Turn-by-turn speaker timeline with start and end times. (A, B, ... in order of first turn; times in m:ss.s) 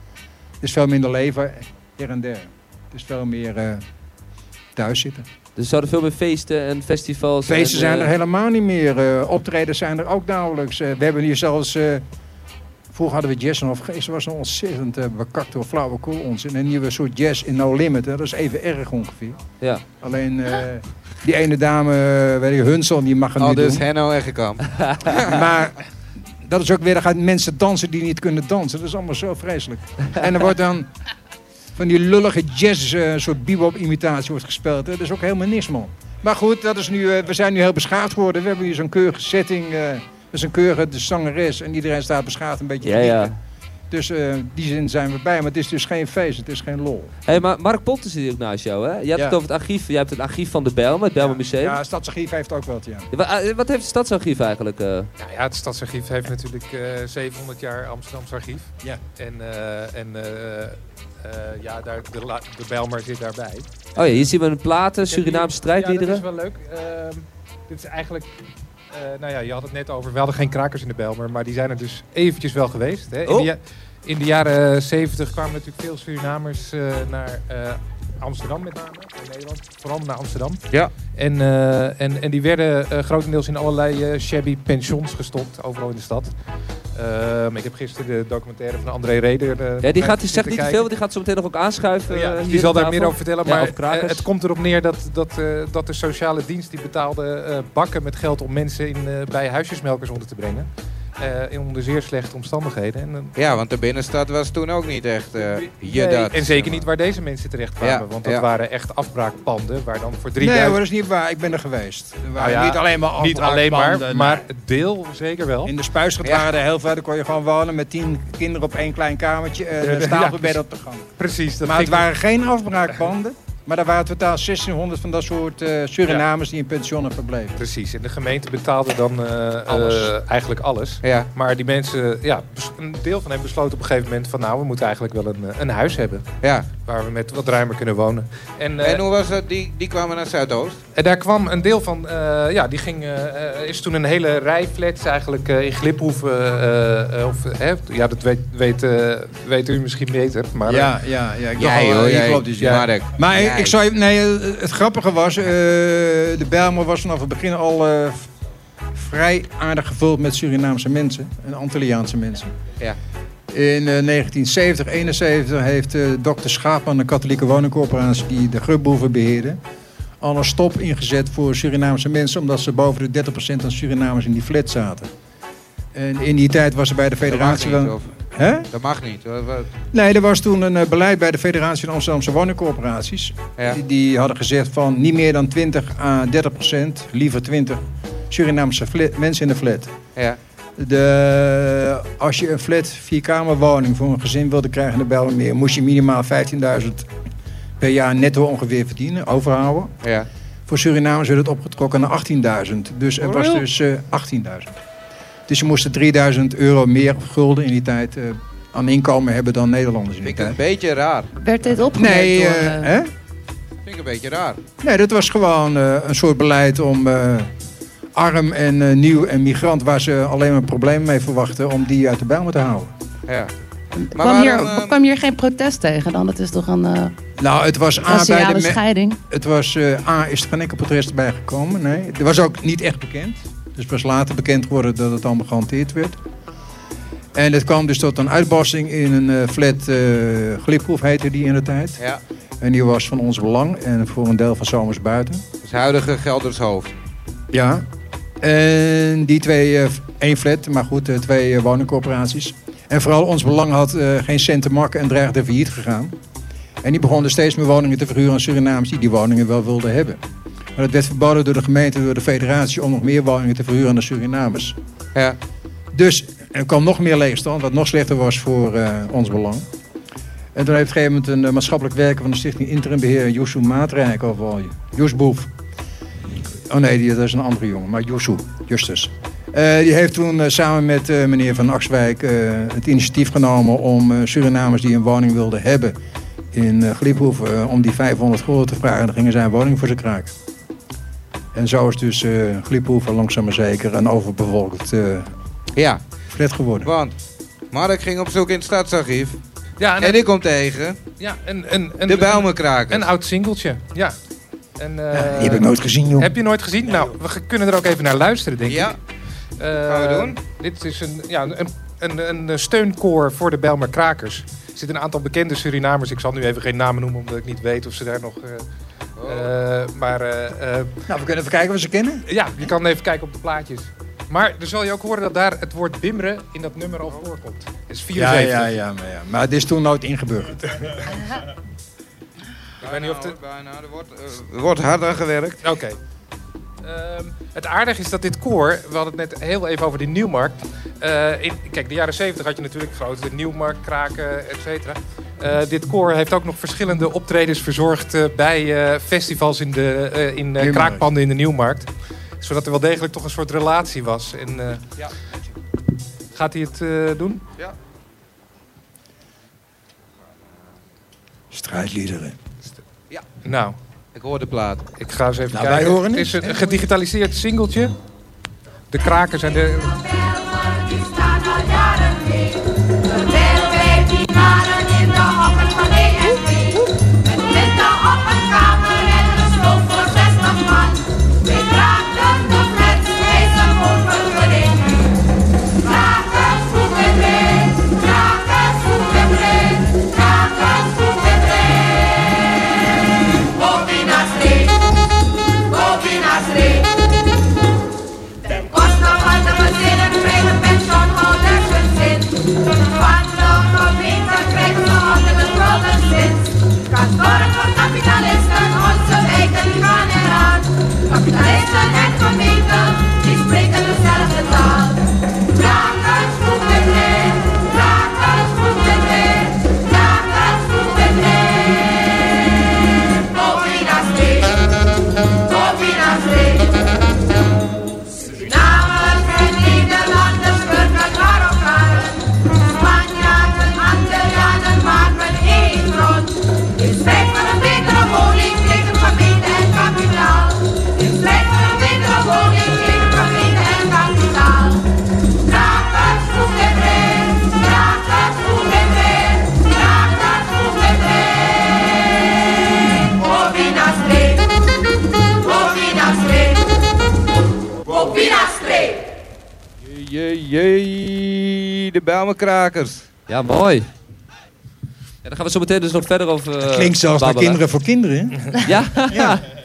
0:00.6-0:03.8 A
0:04.8-0:05.2 A
0:05.6-0:08.1 B
0:07.5-0:12.0 A
0:12.9-0:19.4 A
0:20.0-0:23.8 A
0:23.4-0:25.3 C
0:25.1-0:25.8 A
0:26.4-0:30.9 A
0:31.8-0:43.4 A
0:42.8-0:43.3 B
0:43.9-0:47.1 A
0:47.3-0:51.8 B
0:51.2-0:53.1 A
0:53.1-0:55.1 B
0:55.2-1:03.9 D
1:04.0-1:06.2 B
1:05.0-1:08.3 D
1:08.9-1:26.3 D
1:26.9-1:30.9 D
1:29.8-1:34.3 B
1:32.1-1:40.7 D
1:41.2-1:43.4 D
1:43.4-1:46.9 C
1:45.7-1:50.8 D
1:47.8-1:48.4 C
1:50.4-1:54.4 A
1:52.4-1:55.7 D
1:55.6-2:01.1 A
1:59.8-2:00.6 D
2:01.2-2:02.0 D
2:01.6-2:07.6 A
2:07.6-2:19.0 D
2:09.7-2:10.0 C
2:11.0-2:11.3 C
2:16.4-2:16.7 C
2:18.8-2:20.8 C
2:20.9-2:30.9 D
2:30.7-2:38.3 A
2:31.6-2:33.8 C
2:38.9-2:42.5 A
2:43.5-2:49.6 A
2:50.2-2:55.1 A
2:55.9-2:58.7 A
2:57.2-2:58.2 C
2:58.7-2:59.7 C
2:59.9-3:09.9 A
3:10.8-3:17.0 A
3:17.8-3:19.9 A
3:20.0-3:20.3 C
3:20.7-3:24.7 A
3:23.2-3:23.6 C
3:25.5-3:30.6 A
3:30.2-3:31.3 C
3:31.4-3:32.6 E
3:31.5-3:32.8 F
3:31.9-3:33.1 A
3:33.8-3:34.6 C
3:34.8-3:37.5 A
3:38.1-3:42.9 A
3:44.0-3:45.0 C
3:44.2-3:47.1 F
3:44.2-3:45.0 E
3:47.4-3:56.2 A
3:48.2-3:49.1 F
3:57.3-4:02.0 A
4:02.6-4:05.4 A
4:05.6-4:06.9 C
4:07.5-4:07.8 A
4:08.4-4:16.1 A
4:16.8-4:20.2 A
4:20.8-4:24.8 A
4:25.9-4:29.6 A
4:30.5-4:35.5 A
4:36.7-4:46.0 A
4:46.5-4:50.3 A
4:51.5-4:55.3 A
4:55.8-4:56.0 C
4:56.3-4:56.9 A
4:56.8-4:57.1 C
4:57.7-4:59.4 C
4:59.8-5:00.2 D
5:00.0-5:01.0 C
5:01.2-5:04.2 D
5:02.1-5:03.1 C
5:04.8-5:09.0 D
5:05.1-5:06.3 A
5:08.6-5:09.0 C
5:09.6-5:18.6 D
5:09.8-5:10.4 C
5:19.2-5:19.5 C
5:19.2-5:20.9 D
5:21.1-5:22.2 A
5:22.3-5:28.8 D
5:28.1-5:31.1 A
5:32.8-5:33.4 D
5:32.8-5:35.6 C
5:35.6-5:36.0 D
5:36.8-5:51.9 D
5:50.6-5:51.1 A
5:52.4-5:54.8 D
5:56.3-5:57.4 D
6:01.5-6:02.4 A
6:03.4-6:03.8 D
6:04.1-6:04.8 C
6:05.0-6:07.9 D
6:05.5-6:06.8 A
6:08.9-6:10.1 D
6:10.8-6:12.5 F
6:10.9-6:12.6 E
6:13.0-6:13.5 F
6:13.2-6:24.8 E
6:24.0-6:24.9 F
6:25.8-6:31.3 E
6:27.4-6:28.0 F
6:28.9-6:30.1 F
6:33.6-6:34.8 E
6:35.8-6:36.9 E
6:38.5-6:38.7 F
6:38.6-7:01.2 E
6:42.6-6:42.9 F
7:03.4-7:04.5 E
7:05.5-7:06.6 E
7:08.3-7:12.1 E
7:11.1-7:11.7 F
7:12.4-7:12.7 F
7:12.7-7:24.8 E
7:16.6-7:16.8 F
7:24.2-7:24.8 F
7:25.5-7:28.6 E
7:29.4-7:30.7 E
7:33.3-7:33.9 E
7:33.5-7:34.3 F
7:36.0-7:36.5 E
7:38.0-7:38.6 C
7:39.8-7:43.0 C
7:43.3-7:43.9 B
7:45.2-7:47.6 B
7:46.6-7:48.5 A
7:48.6-7:49.4 B
7:49.1-7:49.4 A